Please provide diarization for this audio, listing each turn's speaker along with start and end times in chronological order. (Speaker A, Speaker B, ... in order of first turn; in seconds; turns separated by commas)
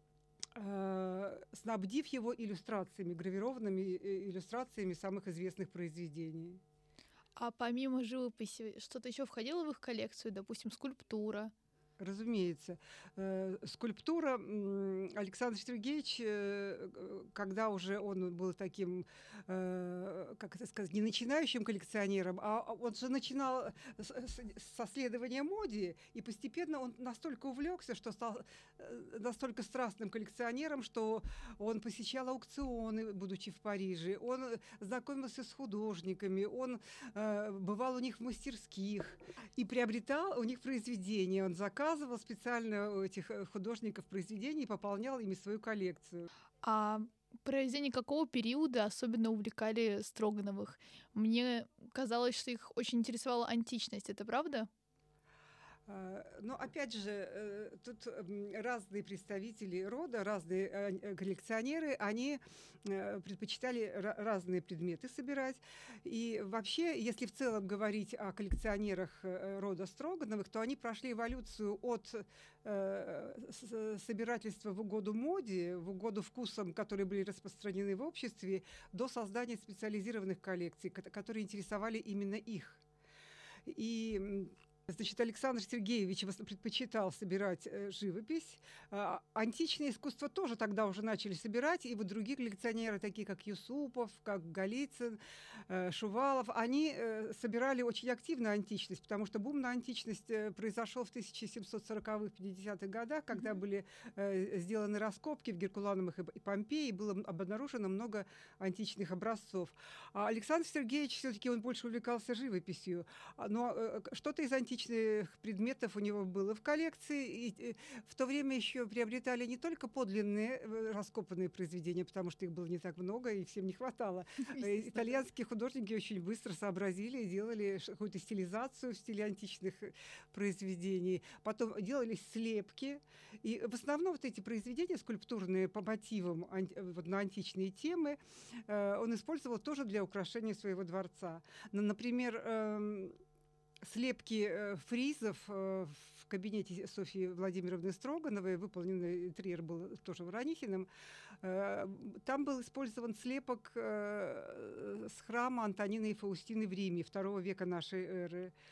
Speaker A: 0.6-6.6, Speaker B: 7.4-11.5, Speaker A: 12.0-46.3, Speaker B: 46.6-54.7, Speaker A: 55.9-82.8, Speaker A: 83.7-143.2, Speaker B: 124.5-125.2, Speaker A: 143.8-150.9, Speaker A: 151.4-158.5